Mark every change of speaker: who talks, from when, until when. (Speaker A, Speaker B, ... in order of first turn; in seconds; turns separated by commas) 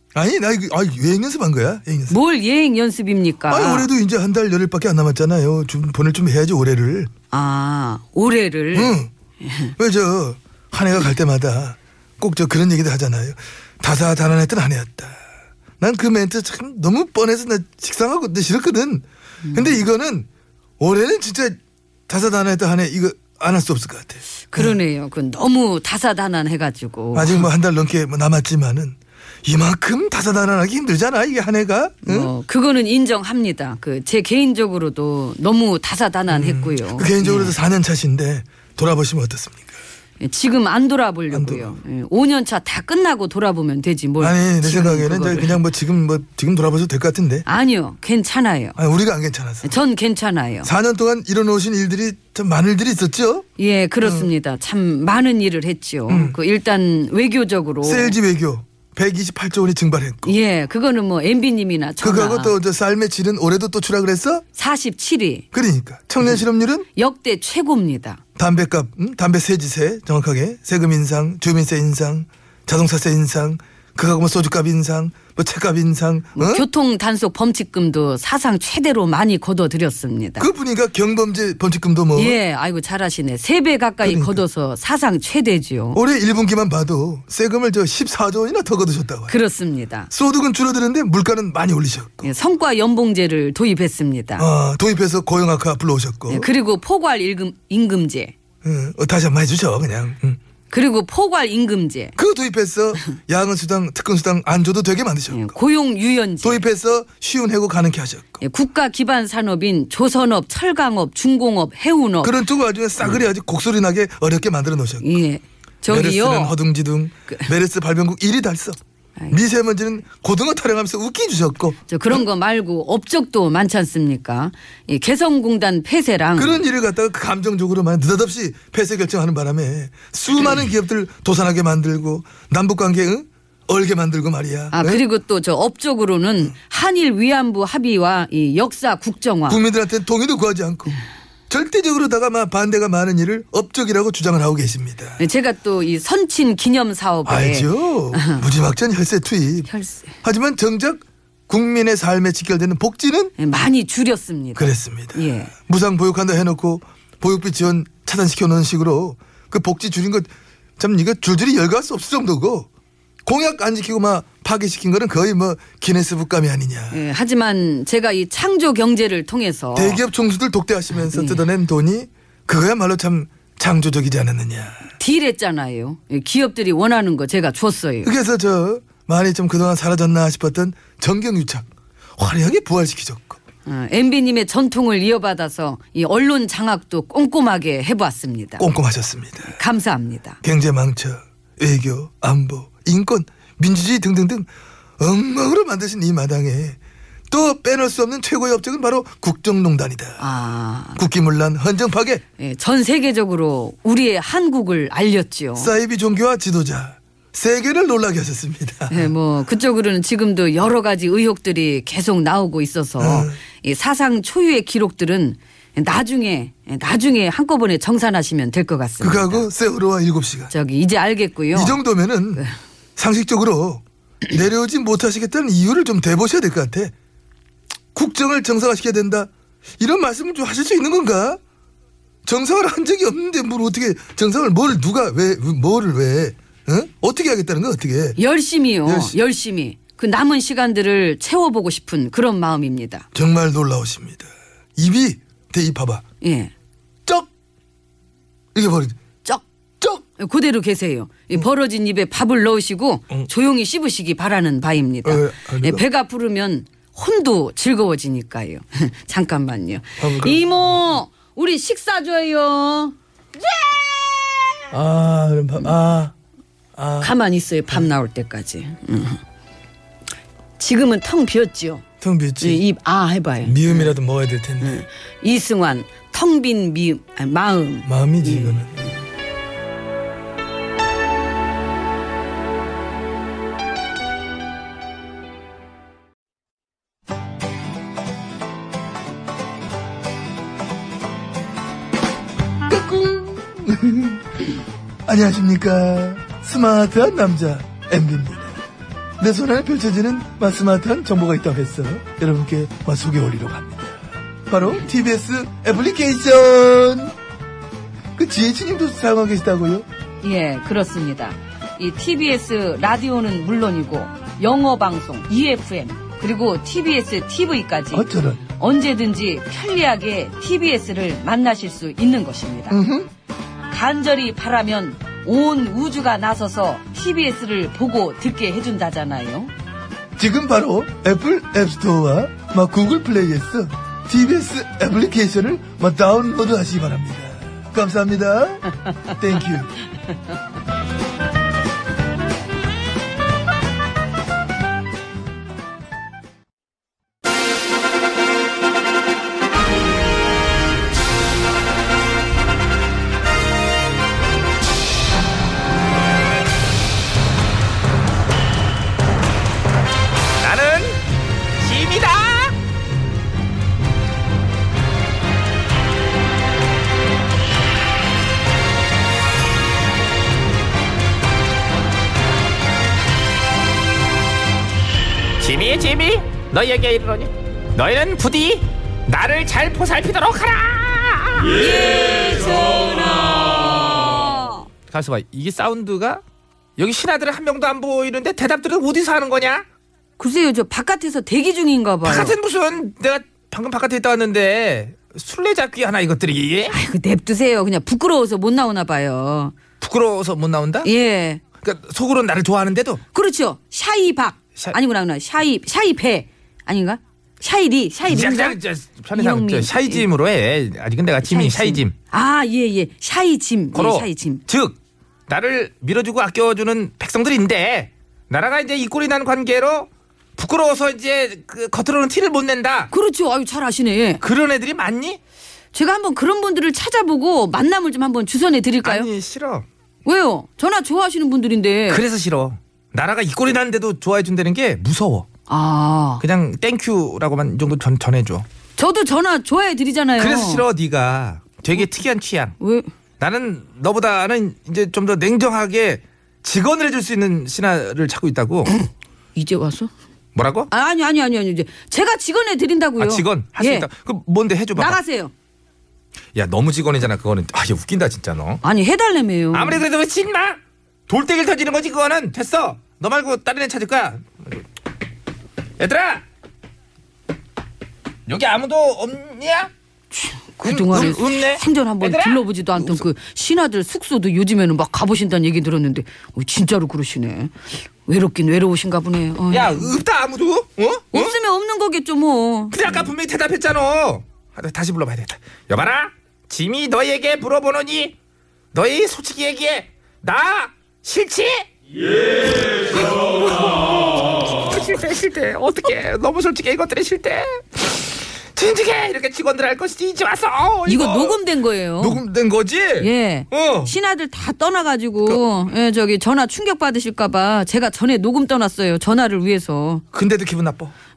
Speaker A: 0.1-2.2, Speaker B: 2.1-3.9, Speaker A: 3.5-7.1, Speaker B: 7.3-9.7, Speaker A: 8.7-9.1, Speaker A: 9.8-15.2, Speaker A: 15.8-20.3, Speaker B: 19.4-19.8, Speaker A: 20.8-21.6, Speaker A: 22.1-24.8, Speaker B: 24.5-27.5, Speaker A: 27.1-32.3, Speaker B: 32.0-37.5, Speaker A: 36.3-39.8, Speaker B: 40.2-45.6, Speaker A: 41.3-41.8, Speaker A: 44.2-47.4, Speaker B: 47.5-48.8, Speaker A: 48.8-49.7, Speaker B: 49.6-50.7, Speaker A: 50.6-53.4, Speaker B: 53.6-58.2, Speaker A: 54.0-54.3, Speaker A: 56.1-56.4, Speaker A: 57.8-60.3, Speaker B: 60.2-62.5, Speaker A: 62.0-64.4, Speaker B: 64.5-65.5, Speaker A: 65.5-66.8, Speaker B: 66.9-68.2, Speaker A: 68.3-76.7, Speaker B: 76.3-80.5, Speaker A: 80.4-82.4, Speaker B: 82.1-86.0, Speaker A: 84.0-84.4, Speaker A: 85.9-89.4, Speaker B: 89.3-90.1, Speaker A: 90.1-92.3, Speaker B: 92.2-94.5, Speaker A: 94.4-96.5, Speaker B: 96.3-98.3, Speaker A: 98.6-100.4, Speaker B: 100.7-102.1, Speaker A: 102.2-105.4, Speaker B: 105.3-106.6, Speaker A: 106.4-108.4, Speaker B: 108.4-112.4, Speaker A: 112.2-115.1, Speaker B: 115.0-116.6, Speaker A: 115.9-118.8, Speaker A: 119.3-122.2, Speaker B: 121.9-126.6, Speaker A: 126.4-135.0, Speaker B: 134.7-139.6, Speaker A: 139.5-141.0, Speaker A: 141.5-145.2, Speaker B: 145.2-148.4, Speaker A: 147.2-149.7, Speaker B: 149.7-150.1, Speaker A: 150.2-153.3, Speaker B: 153.4-155.5, Speaker A: 154.6-162.7, Speaker A: 163.2-167.0, Speaker B: 166.9-170.0, Speaker A: 169.7-174.9, Speaker B: 171.0-171.4, Speaker B: 175.0-178.1, Speaker A: 178.0-183.4, Speaker B: 183.7-188.6, Speaker A: 188.6-189.6, Speaker B: 189.5-190.4, Speaker A: 190.4-196.8, Speaker A: 197.3-200.2, Speaker B: 200.2-201.0, Speaker A: 200.9-202.2, Speaker B: 202.4-205.7, Speaker A: 205.6-209.1, Speaker B: 208.9-219.5, Speaker A: 213.0-213.4, Speaker A: 219.0-220.5, Speaker B: 220.5-221.8, Speaker A: 221.5-222.4, Speaker A: 223.0-226.9, Speaker A: 227.9-231.4, Speaker A: 232.2-238.2, Speaker B: 238.2-243.1, Speaker A: 238.8-239.1, Speaker A: 243.1-246.0, Speaker B: 246.2-246.5, Speaker A: 248.5-248.9, Speaker B: 250.0-264.0, Speaker A: 255.0-255.8, Speaker A: 260.0-260.6, Speaker A: 264.7-266.1, Speaker A: 266.8-267.1, Speaker B: 267.0-269.2, Speaker B: 270.6-271.8, Speaker A: 272.0-272.6, Speaker B: 272.4-273.9, Speaker A: 273.4-274.8, Speaker B: 274.6-278.6, Speaker A: 277.9-279.0, Speaker A: 292.7-294.2, Speaker A: 295.1-298.6, Speaker A: 299.2-307.1, Speaker A: 308.1-309.9, Speaker B: 310.2-322.8, Speaker A: 317.9-318.4, Speaker A: 322.7-323.1, Speaker B: 323.7-329.5, Speaker A: 330.2-339.7, Speaker C: 360.4-361.0, Speaker C: 361.6-362.5, Speaker C: 375.4-381.6, Speaker B: 381.5-384.7, Speaker C: 384.9-386.2, Speaker C: 386.8-389.6, Speaker B: 390.2-392.3, Speaker C: 392.0-396.7, Speaker B: 396.7-399.5, Speaker C: 399.8-400.9, Speaker B: 400.8-401.4, Speaker C: 401.6-403.0, Speaker B: 403.1-408.6, Speaker C: 408.1-411.9, Speaker B: 409.1-410.1, Speaker B: 411.2-414.4, Speaker C: 413.7-414.8, Speaker C: 415.3-422.9, Speaker B: 422.9-424.2, Speaker C: 424.2-425.2, Speaker B: 425.7-429.1, Speaker C: 428.8-429.6, Speaker B: 430.0-432.0, Speaker C: 431.9-435.3, Speaker B: 435.5-436.2, Speaker C: 436.2-438.4, Speaker B: 438.8-440.6, Speaker C: 440.2-442.6, Speaker B: 442.6-442.9, Speaker C: 443.2-448.7, Speaker B: 449.4-449.9, Speaker C: 450.3-450.7, Speaker B: 450.7-453.9, Speaker C: 453.0-455.0, Speaker B: 454.7-455.3, Speaker C: 456.3-458.6, Speaker B: 458.6-459.8, Speaker C: 459.5-464.6, Speaker C: 465.8-466.2, Speaker C: 468.3-469.7, Speaker B: 470.1-477.5, Speaker C: 470.6-473.0, Speaker B: 478.1-479.9, Speaker C: 479.5-481.4, Speaker B: 481.1-482.8, Speaker C: 482.7-488.1, Speaker C: 488.7-491.7, Speaker C: 492.4-501.4, Speaker B: 500.8-502.2, Speaker C: 502.0-503.9, Speaker B: 503.0-510.0, Speaker C: 510.1-510.9